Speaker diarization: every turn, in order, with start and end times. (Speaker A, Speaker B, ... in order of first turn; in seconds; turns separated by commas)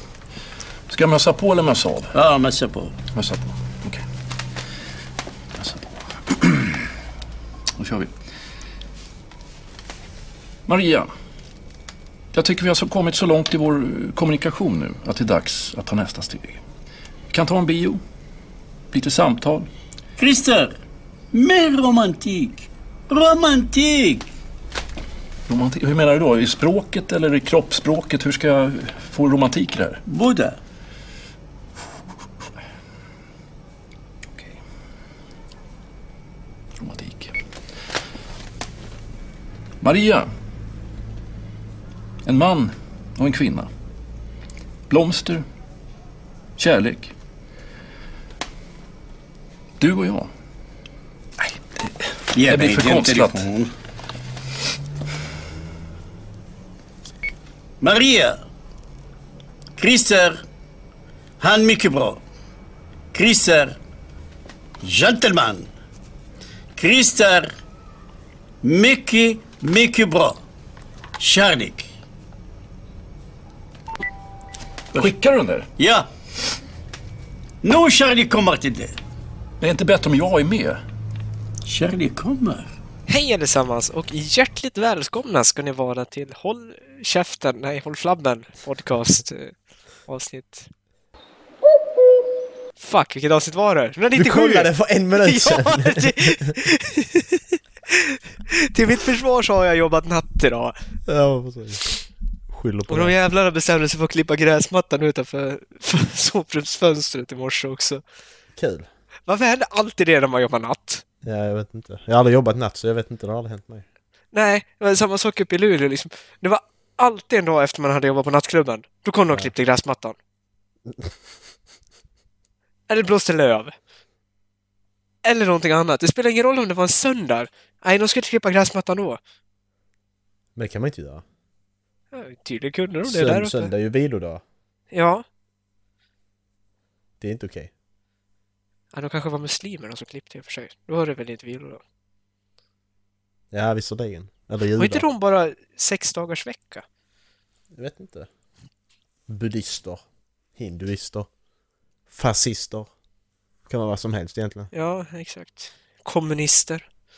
Speaker A: 0.9-2.1, Speaker B: 2.1-3.0, Speaker A: 3.1-4.0, Speaker A: 5.6-6.8, Speaker A: 7.8-8.1, Speaker A: 10.7-11.1, Speaker A: 12.3-16.6, Speaker A: 17.3-18.0, Speaker A: 18.9-19.7, Speaker B: 20.2-20.8, Speaker B: 21.3-24.3, Speaker A: 25.5-30.0, Speaker B: 30.1-30.6, Speaker A: 36.8-37.4, Speaker A: 39.8-40.3, Speaker A: 42.2-43.7, Speaker A: 44.9-45.5, Speaker A: 46.6-47.1, Speaker A: 49.8-50.3, Speaker A: 51.4-53.5, Speaker B: 52.3-53.7, Speaker B: 57.8-58.4, Speaker B: 59.8-60.4, Speaker B: 61.4-62.2, Speaker B: 63.1-63.8, Speaker B: 64.8-65.7, Speaker B: 66.8-67.5, Speaker B: 68.6-70.4, Speaker B: 71.2-71.9, Speaker A: 75.0-75.7, Speaker B: 75.8-76.1, Speaker B: 77.6-79.0, Speaker A: 79.6-80.8, Speaker B: 81.7-82.7, Speaker C: 83.1-90.7, Speaker C: 92.8-100.8, Speaker D: 94.2-96.5, Speaker D: 101.1-101.9, Speaker D: 102.5-103.1, Speaker C: 102.9-108.0, Speaker D: 108.6-108.9, Speaker C: 109.3-111.0, Speaker D: 111.2-113.9, Speaker C: 114.3-120.2, Speaker D: 120.9-121.2, Speaker C: 122.9-123.8, Speaker C: 125.2-129.2, Speaker D: 130.6-131.2, Speaker C: 132.1-133.7, Speaker D: 133.0-134.4, Speaker C: 134.9-135.2, Speaker D: 137.2-137.7, Speaker C: 138.9-141.8, Speaker D: 143.5-145.1, Speaker C: 144.8-146.8, Speaker D: 147.7-148.3, Speaker D: 149.3-151.3, Speaker D: 152.1-152.9, Speaker D: 153.7-154.7, Speaker C: 154.7-156.9